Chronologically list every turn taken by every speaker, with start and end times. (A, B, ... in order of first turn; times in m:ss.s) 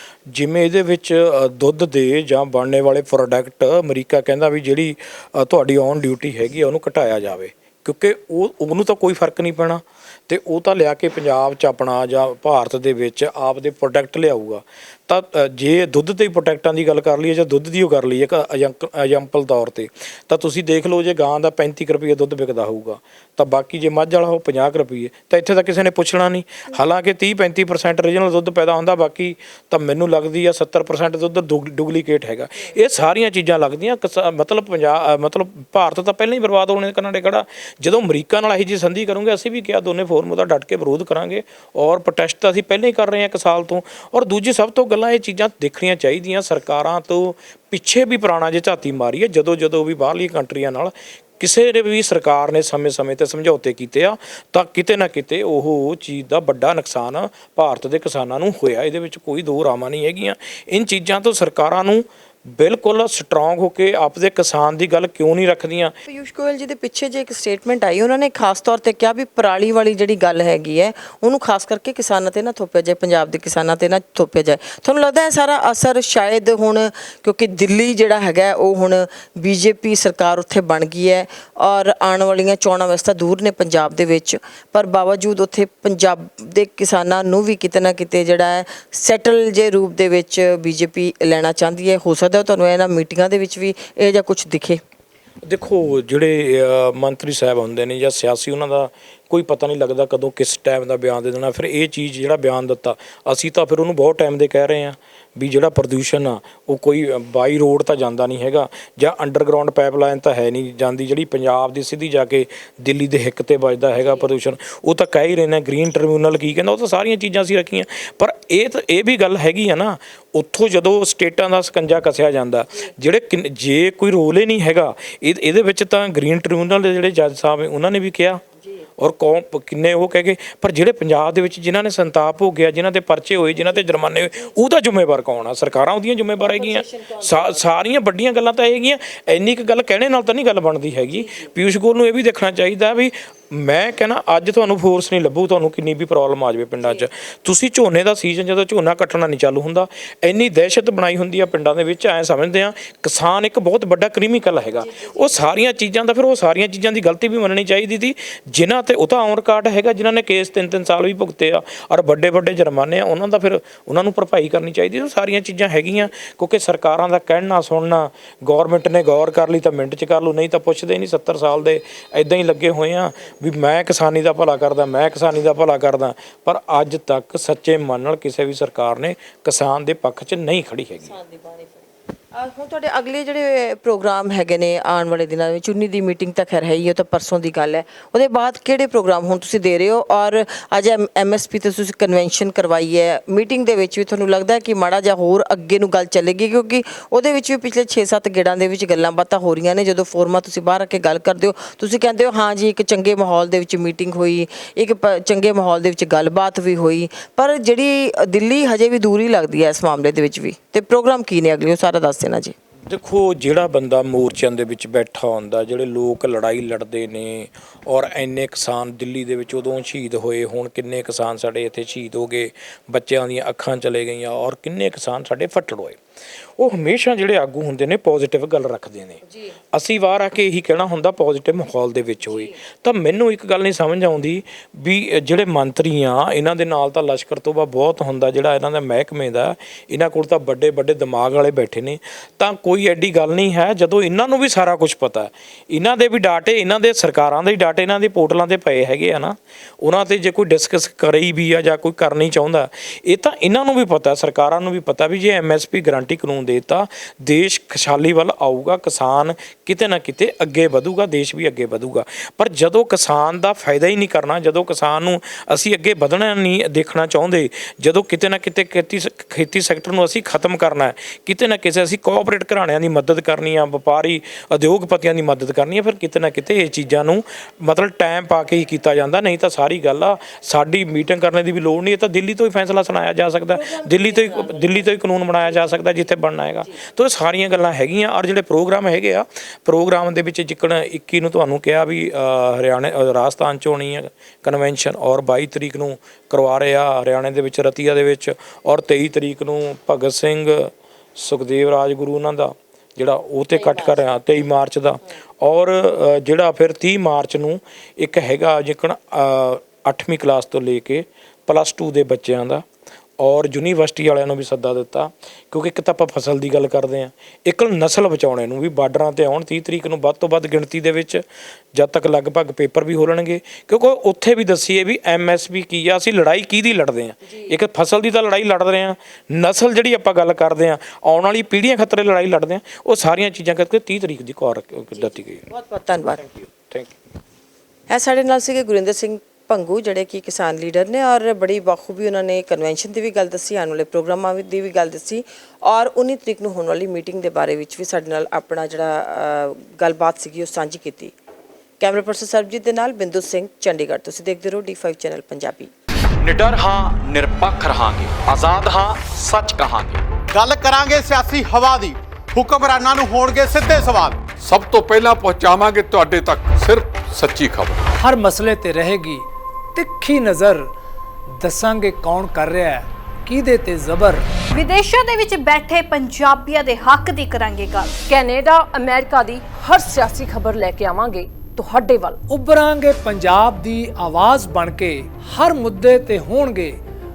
0:00.3-1:05.9 A
1:06.1-1:34.8 B
1:35.4-2:08.4 A
2:09.0-3:01.1 A
2:16.4-2:17.4 B
3:01.1-3:32.5 B
3:32.9-3:46.0 A
3:46.6-3:49.2 A
3:49.7-5:12.6 A
4:43.5-4:44.9 B
5:03.6-5:03.9 B
5:13.2-5:21.2 A
5:21.7-5:35.4 A
5:35.5-5:36.2 B
5:36.5-5:36.9 A
5:37.9-5:51.1 B
5:51.8-5:55.7 B
5:56.2-6:00.0 C
6:00.3-6:04.3 D
6:04.4-6:07.8 E
6:08.0-6:10.7 F
6:11.4-6:14.2 F
6:14.5-6:17.9 G
6:18.1-6:22.2 H
6:22.3-6:26.8 F